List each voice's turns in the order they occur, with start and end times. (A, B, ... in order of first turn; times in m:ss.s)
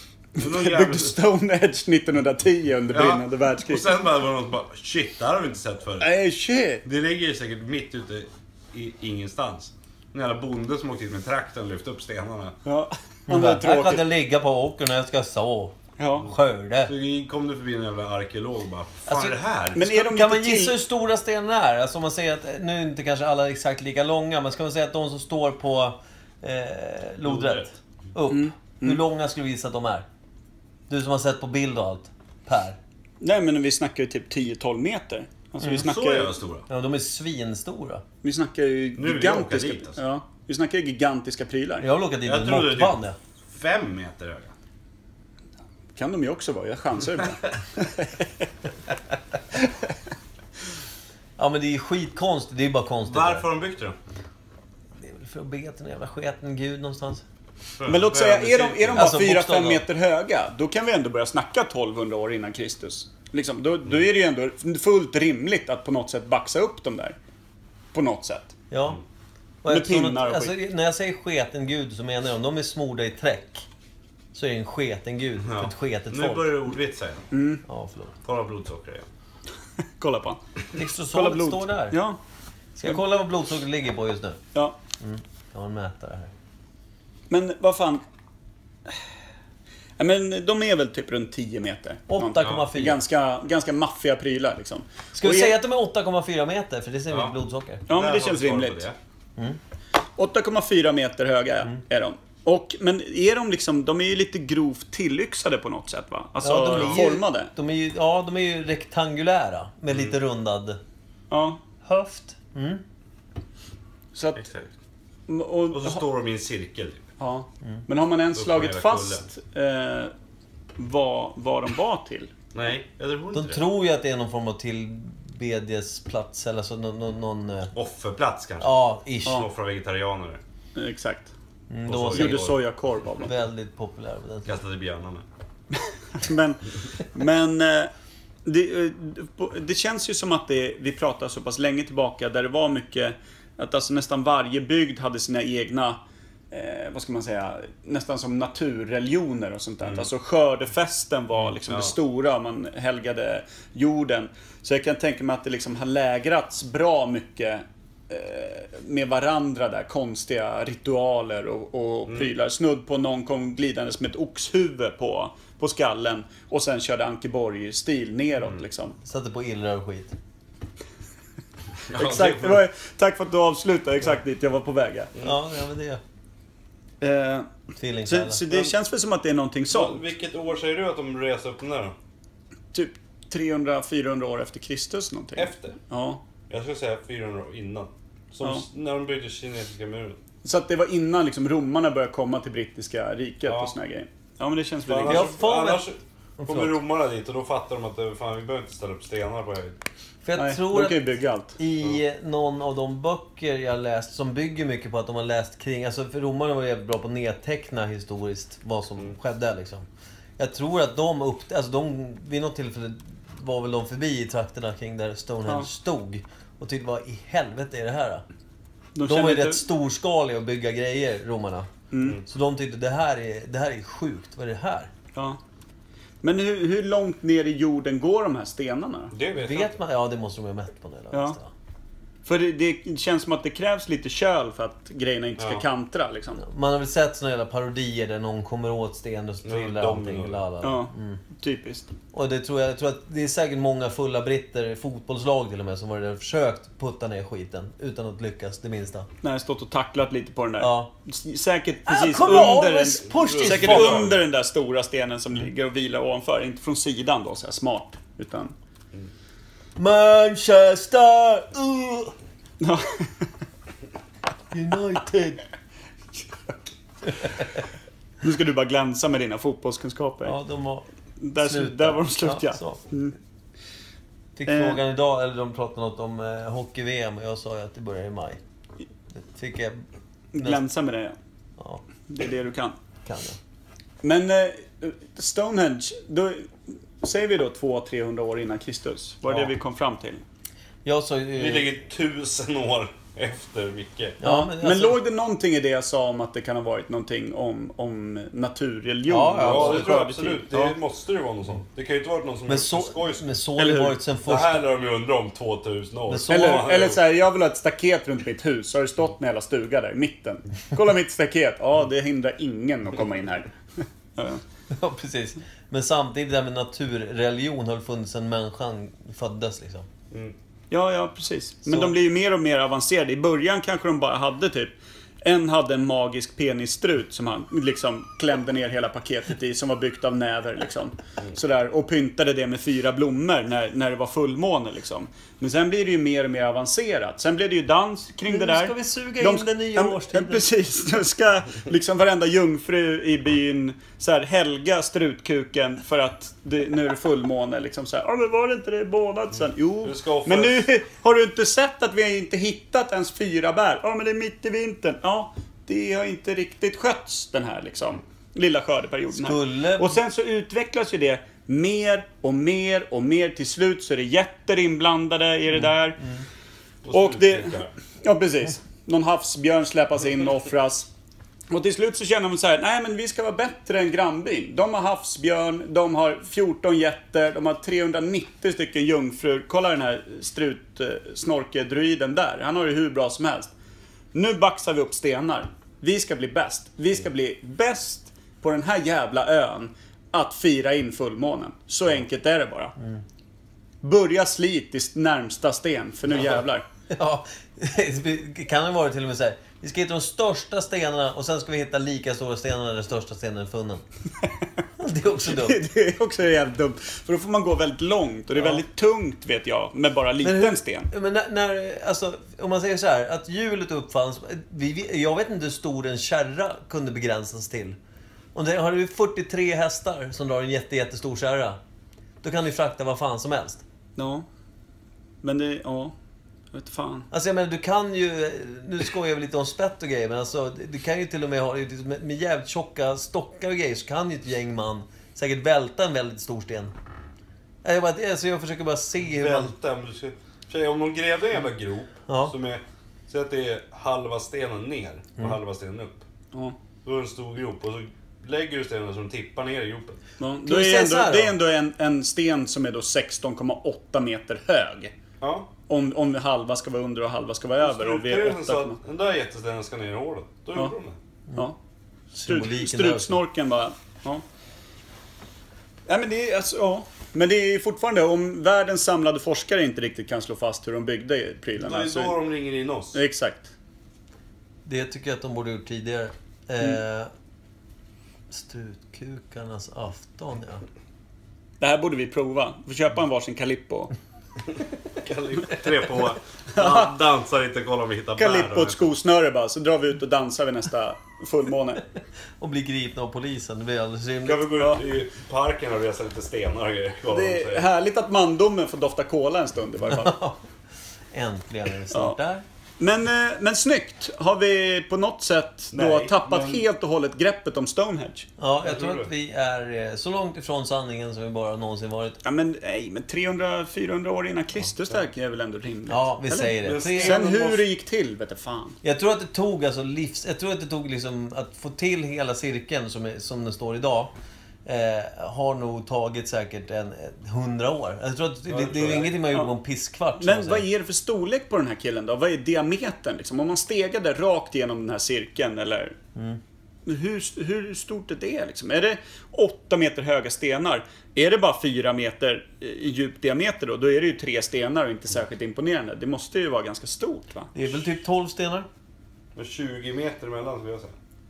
0:00.4-0:03.9 A
0:00.4-0:01.2 B
0:02.9-0:06.1 B
0:06.0-0:06.8 A
0:06.8-0:12.6 B
0:12.6-0:14.1 A
0:13.3-0:16.9 C
0:16.0-0:16.3 A
0:16.8-0:19.8 B
0:19.1-0:30.0 C
0:19.7-0:20.8 A
0:27.2-0:27.7 B
0:28.3-0:29.0 A
0:30.9-0:32.8 C
0:33.2-0:36.3 A
0:35.7-0:36.7 B
0:36.7-0:38.0 C
0:38.2-0:41.9 A
0:39.0-0:40.0 B
0:41.8-0:43.2 C
0:42.2-0:43.0 B
0:43.5-0:44.5 B
0:45.9-0:48.4 A
0:51.4-0:53.5 C
0:53.0-0:54.0 B
0:55.0-0:57.2 C
0:57.8-0:59.1 B
0:57.8-1:07.2 A
0:58.9-0:59.8 C
1:07.9-1:08.5 A
1:08.7-1:09.0 C
1:09.6-1:13.6 C
1:09.7-1:10.6 A
1:14.3-1:16.6 C
1:15.4-1:17.3 B
1:17.3-1:17.6 A
1:17.6-1:18.1 C
1:18.2-1:19.0 B
1:20.0-1:20.4 A
1:20.7-1:22.0 C
1:21.1-1:22.2 A
1:22.8-1:24.4 C
1:25.0-1:26.3 C
1:27.3-1:28.0 A
1:30.0-1:35.6 A
1:32.1-1:33.0 C
1:32.4-1:32.7 B
1:35.1-1:37.8 C
1:37.9-1:39.0 B
1:37.9-1:38.8 A
1:40.2-1:47.5 A
1:46.4-1:50.8 C
1:46.7-1:47.0 B
1:51.3-1:51.6 A
1:51.8-1:52.8 C
1:54.1-1:54.4 A
1:54.4-1:54.7 B
1:55.3-1:56.0 A
1:55.7-1:57.1 B
1:57.2-2:00.1 A
1:58.3-1:59.2 B
2:00.8-2:02.3 A
2:02.5-2:03.6 B
2:03.3-2:07.7 C
2:07.7-2:10.4 B
2:08.6-2:09.4 C
2:10.8-2:11.3 A
2:11.7-2:12.6 C
2:11.9-2:12.6 B
2:12.0-2:13.3 A
2:13.2-2:14.5 C
2:14.4-2:15.2 B
2:15.8-2:17.9 A
2:18.4-2:26.0 A
2:26.5-2:49.0 A
2:29.8-2:30.1 B
2:31.7-2:31.9 B
2:49.0-2:50.1 C
2:51.9-2:52.6 B
2:51.9-2:55.1 A
2:55.2-2:56.0 C
2:57.0-2:57.5 A
2:57.8-2:58.6 C
2:58.0-3:00.0 A
2:59.7-3:01.9 B
3:02.7-3:06.2 A
3:05.4-3:05.8 B
3:06.5-3:10.2 B
3:10.4-3:15.3 A
3:13.4-3:13.7 B
3:14.8-3:19.8 B
3:15.1-3:16.8 C
3:20.2-3:29.8 C
3:20.4-3:21.6 A
3:30.4-3:38.2 C
3:38.9-3:39.6 A
3:39.0-3:41.7 C
3:41.9-3:42.2 A
3:42.2-3:44.9 C
3:45.1-3:45.4 A
3:46.2-3:49.1 A
3:49.1-3:49.7 B
3:49.3-3:51.5 C
3:51.1-3:51.4 A
3:52.2-3:56.4 A
3:55.4-3:55.6 B
3:56.4-4:01.2 C
3:59.4-4:00.4 B
4:00.6-4:01.9 A
4:02.1-4:09.1 C
4:09.2-4:18.5 A
4:10.6-4:10.9 C
4:11.8-4:14.1 C
4:12.2-4:14.2 B
4:19.8-4:22.1 C
4:22.6-4:23.2 A
4:24.5-4:25.4 C
4:28.2-4:30.4 A
4:30.2-4:32.8 C
4:31.2-4:33.2 A
4:34.4-4:38.4 C
4:34.5-4:34.8 A
4:39.1-4:39.8 C
4:40.3-4:41.2 A
4:40.4-4:40.6 C
4:41.6-4:41.8 C
4:42.1-4:42.8 A
4:43.0-4:43.4 C
4:44.0-4:50.2 A
4:50.8-4:51.7 C
4:51.4-4:54.2 B
4:54.2-4:55.0 C
4:54.2-5:00.7 A
4:59.1-5:00.7 C
4:59.4-5:03.3 B
5:02.5-5:04.6 C
5:03.6-5:04.0 A
5:04.2-5:07.0 B
5:06.1-5:06.7 C
5:06.3-5:14.4 A
5:14.7-5:19.9 C
5:20.7-6:06.0 A
5:21.6-5:21.9 C
5:38.2-5:40.5 C
5:49.8-5:50.7 B
5:59.1-6:00.0 C
6:06.0-6:06.2 C
6:06.8-6:07.7 B
6:06.9-6:10.9 A
6:11.5-6:23.5 A
6:24.1-6:32.7 A
6:32.8-6:33.0 C
6:33.8-6:36.6 A
6:36.9-6:43.8 C
6:44.8-6:45.6 C
6:45.2-6:50.9 A
6:50.2-6:57.8 C
6:58.3-7:01.6 C
7:02.2-7:03.6 C
7:04.0-7:04.2 A
7:05.2-7:05.9 A
7:06.5-7:07.1 A
7:07.1-7:16.7 C
7:17.6-7:19.5 C
7:19.1-7:26.0 B
7:22.1-7:22.3 C
7:26.3-7:26.6 A
7:26.8-7:30.0 B
7:30.2-7:34.9 A
7:30.4-7:31.4 C
7:35.2-7:35.5 B
7:35.7-7:38.8 A
7:37.6-7:41.0 B
7:42.1-7:43.2 C
7:42.2-7:44.2 A
7:45.9-7:52.2 A
7:51.6-7:53.0 B
7:52.9-7:53.5 A
7:54.6-7:57.1 C
7:58.3-8:00.6 C
8:01.6-8:03.9 A
8:05.0-8:08.9 B
8:06.6-8:06.9 A
8:08.2-8:11.8 A
8:12.4-8:14.5 C
8:14.2-8:17.7 B
8:17.1-8:20.2 A
8:19.9-8:20.4 C
8:21.1-8:22.4 C
8:21.9-8:22.2 A
8:22.8-8:28.3 A
8:25.7-8:26.6 B
8:28.4-8:32.2 C
8:28.6-8:29.1 B
8:32.2-8:38.8 A
8:35.9-8:37.2 C
8:36.6-8:37.6 B
8:38.8-8:44.1 C
8:44.6-8:50.6 C
8:48.5-8:49.2 B
8:50.2-8:56.0 A
8:56.1-8:56.4 C
8:56.8-9:07.5 A
9:07.5-9:08.7 C
9:09.4-9:11.0 B